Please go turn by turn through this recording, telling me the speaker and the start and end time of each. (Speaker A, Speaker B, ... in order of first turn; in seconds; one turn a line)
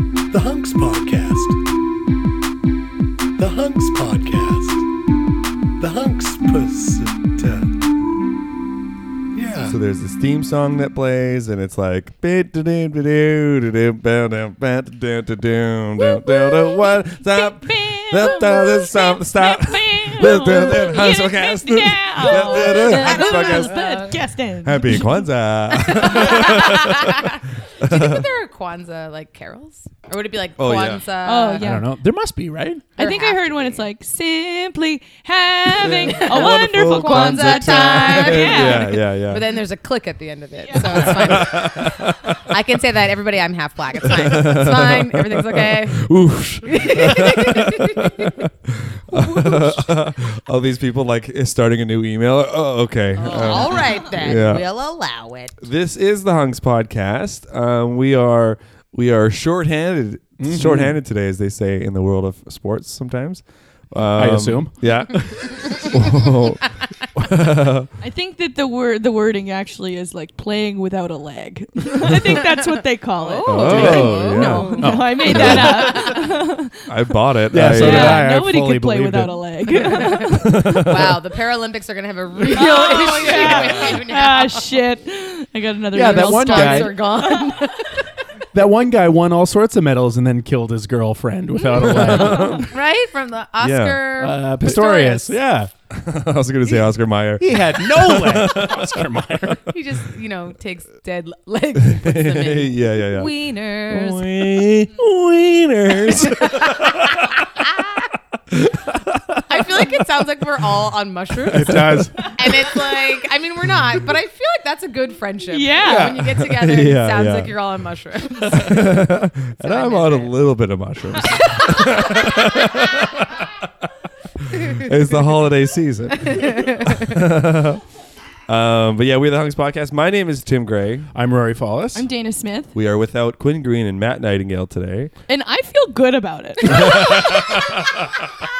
Speaker A: 0.3-1.6
Speaker A: 3.4-4.8
Speaker A: 5.8-7.7
Speaker A: 9.3-9.8
Speaker B: 9.6-24.1
Speaker C: 16.0-25.2
Speaker D: 22.4-24.2
Speaker B: 24.6-28.3
Speaker D: 25.8-31.7
Speaker B: 30.6-31.0
Speaker C: 31.2-31.9
Speaker E: 31.6-32.9
Speaker D: 33.0-33.8
Speaker C: 33.0-39.0
Speaker B: 35.8-39.5
Speaker D: 36.1-46.1
Speaker C: 40.7-41.2
Speaker B: 40.7-42.5
Speaker B: 44.0-54.7
Speaker D: 46.6-48.5
Speaker D: 49.1-50.1
Speaker D: 53.1-55.6
Speaker B: 55.6-67.9
Speaker E: 60.4-61.0
Speaker E: 64.2-64.9
Speaker C: 68.0-77.0
Speaker D: 73.2-76.2
Speaker B: 73.5-76.2
Speaker E: 73.7-75.7
Speaker B: 76.9-78.3
Speaker E: 77.5-79.5
Speaker C: 77.7-80.8
Speaker D: 79.8-84.7
Speaker B: 80.3-81.2
Speaker C: 82.4-87.7
Speaker E: 85.9-87.0
Speaker D: 86.0-88.3
Speaker E: 88.5-92.6
Speaker D: 91.6-95.4
Speaker B: 91.8-92.8
Speaker B: 93.6-94.0
Speaker E: 94.2-95.7
Speaker B: 95.9-99.0
Speaker E: 97.4-99.7
Speaker D: 99.7-104.3
Speaker B: 101.8-109.9
Speaker D: 106.0-107.7
Speaker D: 109.5-119.1
Speaker E: 111.5-112.3
Speaker B: 111.5-112.0
Speaker C: 115.5-116.2
Speaker B: 116.4-117.5
Speaker B: 118.5-123.5
Speaker D: 119.6-120.3
Speaker D: 121.4-122.3
Speaker B: 124.5-127.8
Speaker D: 126.3-127.1
Speaker B: 128.5-131.1
Speaker E: 131.1-132.1
Speaker C: 131.9-132.7
Speaker B: 132.7-135.1
Speaker C: 135.3-137.6
Speaker B: 136.7-138.3